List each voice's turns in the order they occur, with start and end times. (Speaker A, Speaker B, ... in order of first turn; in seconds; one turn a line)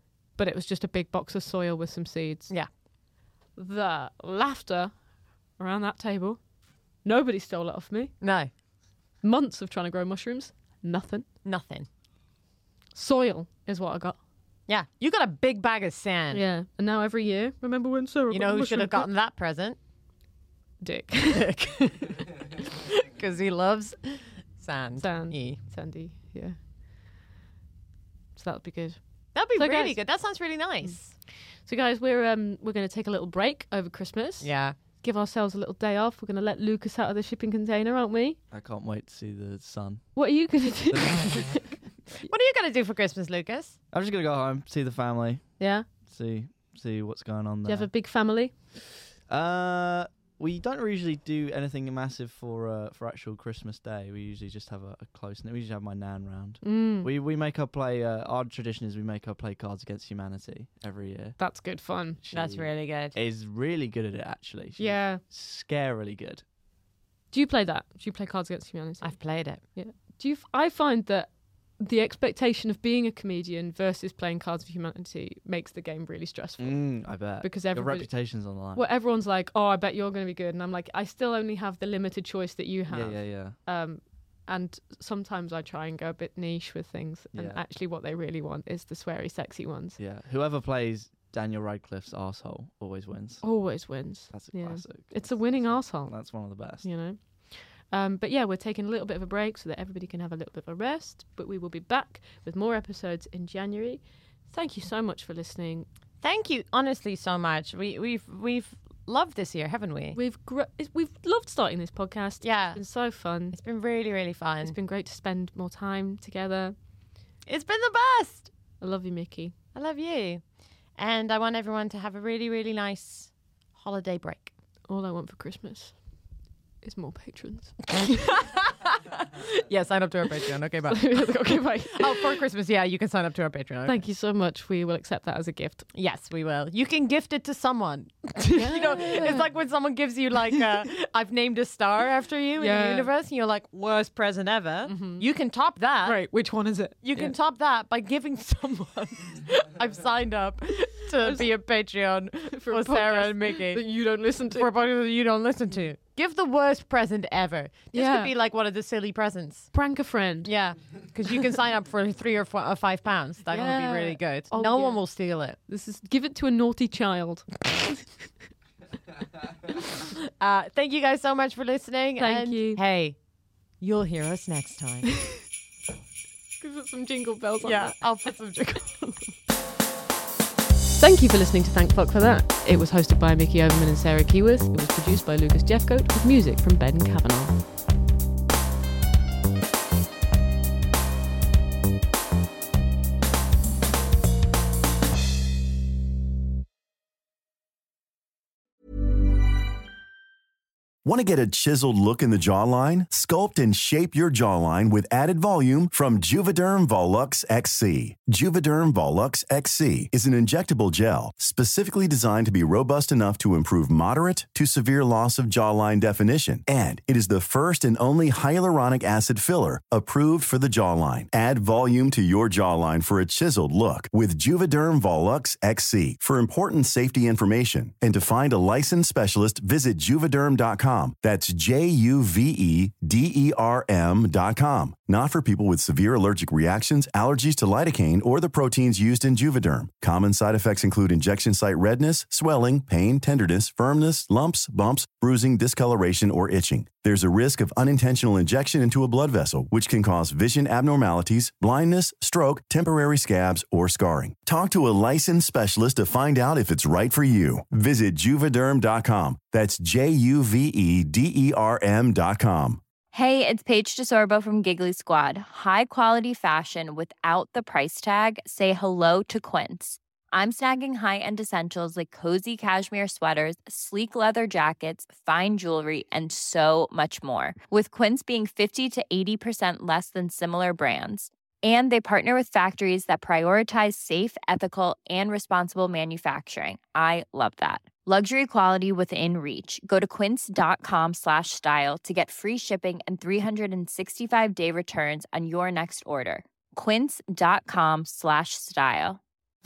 Speaker A: 0.4-2.6
Speaker A: 3.6-5.0
Speaker A: 5.6-6.4
Speaker A: 7.0-8.2
Speaker B: 8.2-8.5
Speaker A: 9.2-11.3
Speaker B: 11.4-11.9
Speaker A: 12.9-14.2
Speaker B: 14.7-16.4
Speaker A: 16.3-19.1
Speaker B: 18.3-19.8
Speaker A: 20.8-21.9
Speaker B: 21.4-21.8
Speaker B: 22.9-25.6
Speaker A: 25.0-26.6
Speaker A: 28.4-38.4
Speaker B: 29.3-31.1
Speaker B: 34.4-34.8
Speaker C: 38.5-40.3
Speaker A: 40.1-42.3
Speaker C: 40.9-41.6
Speaker B: 42.2-43.8
Speaker C: 43.9-45.5
Speaker A: 45.6-45.9
Speaker C: 46.0-47.9
Speaker A: 47.6-48.8
Speaker C: 49.3-61.4
Speaker A: 56.6-57.1
Speaker A: 61.4-62.2
Speaker C: 62.2-66.4
Speaker B: 62.3-63.2
Speaker A: 64.8-65.2
Speaker A: 67.3-90.0
Speaker B: 69.0-69.6
Speaker C: 76.6-78.8
Speaker C: 82.9-83.6
Speaker C: 87.3-87.6
Speaker C: 90.0-96.9
Speaker A: 93.4-105.9
Speaker B: 106.2-110.2
Speaker A: 110.1-113.6
Speaker B: 112.4-114.8
Speaker A: 114.6-116.8
Speaker B: 117.5-118.5
Speaker A: 118.8-119.5
Speaker B: 119.7-120.4
Speaker B: 121.0-124.5
Speaker A: 124.9-128.6
Speaker B: 128.4-128.7
Speaker B: 129.6-134.0
Speaker A: 130.9-132.4
Speaker A: 133.8-135.9
Speaker B: 135.9-146.2
Speaker A: 138.5-139.5
Speaker A: 142.6-143.1
Speaker A: 144.8-145.3
Speaker A: 146.0-147.3
Speaker B: 147.0-159.7
Speaker A: 151.2-151.5
Speaker A: 152.5-154.7
Speaker A: 157.9-158.3
Speaker A: 159.7-160.5
Speaker B: 160.4-165.6
Speaker A: 163.5-167.8
Speaker B: 170.4-173.2
Speaker A: 172.2-172.8
Speaker B: 173.8-175.1
Speaker A: 176.6-179.3
Speaker B: 177.6-178.9
Speaker A: 181.0-187.6
Speaker D: 201.1-262.8
Speaker E: 263.1-299.2